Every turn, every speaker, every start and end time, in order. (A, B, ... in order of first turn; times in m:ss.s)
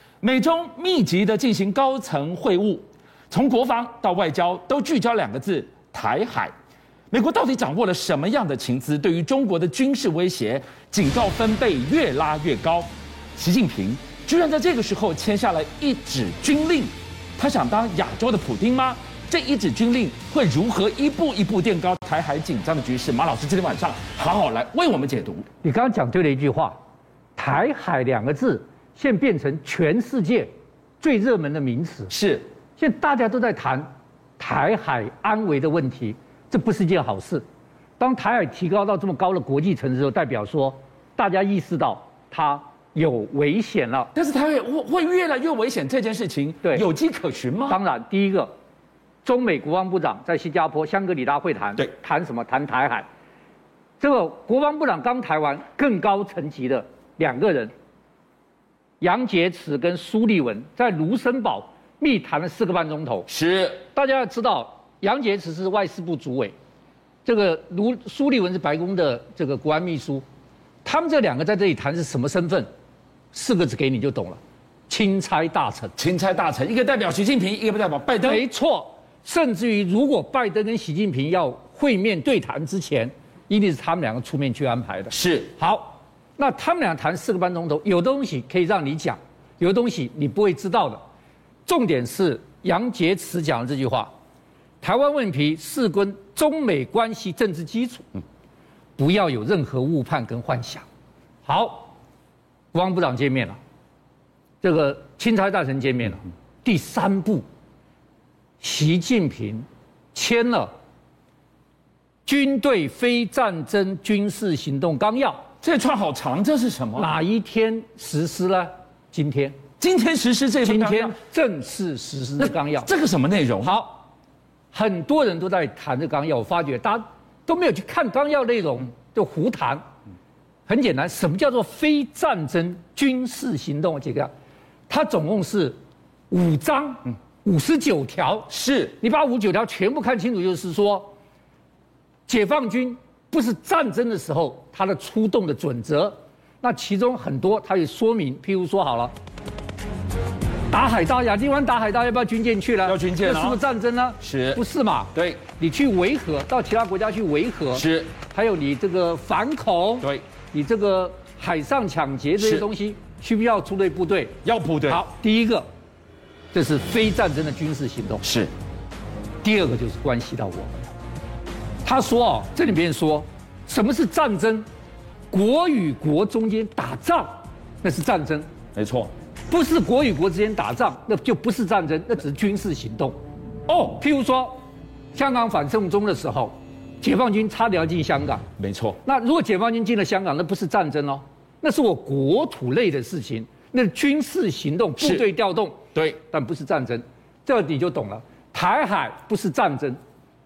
0:00.2-0:06.5 A
0:07.1-0:25.4 A
0:25.6-0:26.7 B
0:27.4-0:30.5 B
0:31.0-0:32.1 B
0:32.1-0:32.4 A
0:32.8-0:33.9 B
0:34.4-0:37.4 B
0:38.0-0:44.1 B
0:44.1-0:47.8 A
0:47.7-0:48.5 B
0:49.2-0:53.0 B
0:54.0-0:57.7 B
0:59.0-1:03.3 B
1:03.3-1:03.8 A
1:03.9-1:06.5 B
1:07.2-1:10.2 B
1:10.8-1:12.7 B
1:13.3-1:15.9 B
1:16.0-1:18.4 A
1:18.2-1:31.0 B
1:25.1-1:25.5 A
1:31.6-1:34.1 B
1:34.8-1:38.2 B
1:39.0-1:40.8 B
1:41.4-1:41.9 B
1:42.7-1:43.6 B
1:44.6-1:47.4 B
1:48.6-1:50.7 B
1:52.2-1:55.4 B
1:55.6-1:57.1 A
1:57.0-1:59.6 B
1:59.8-2:01.2 A
2:00.6-2:02.9 B
2:02.4-2:03.8 A
2:03.6-2:04.0 B
2:04.7-2:09.8 B
2:10.7-2:14.3 B
2:14.9-2:15.8 B
2:16.3-2:21.1 B
2:18.5-2:19.0 A
2:22.3-2:29.1 B
2:30.7-2:45.6 B
2:32.8-2:33.6 A
2:34.2-2:34.6 A
2:35.1-2:35.4 A
2:37.7-2:38.1 A
2:42.4-2:42.6 A
2:44.4-2:45.0 A
2:46.5-2:48.2 B
2:48.2-2:48.5 A
2:49.4-2:50.7 B
2:51.8-2:54.6 B
2:55.3-2:57.3 B
2:57.8-2:58.5 B
2:58.7-2:59.1 A
2:59.5-3:03.1 B
3:03.7-3:04.0 A
3:03.9-3:04.6 B
3:05.1-3:08.4 B
3:08.6-3:09.0 A
3:09.0-3:20.0 B
3:15.0-3:15.2 A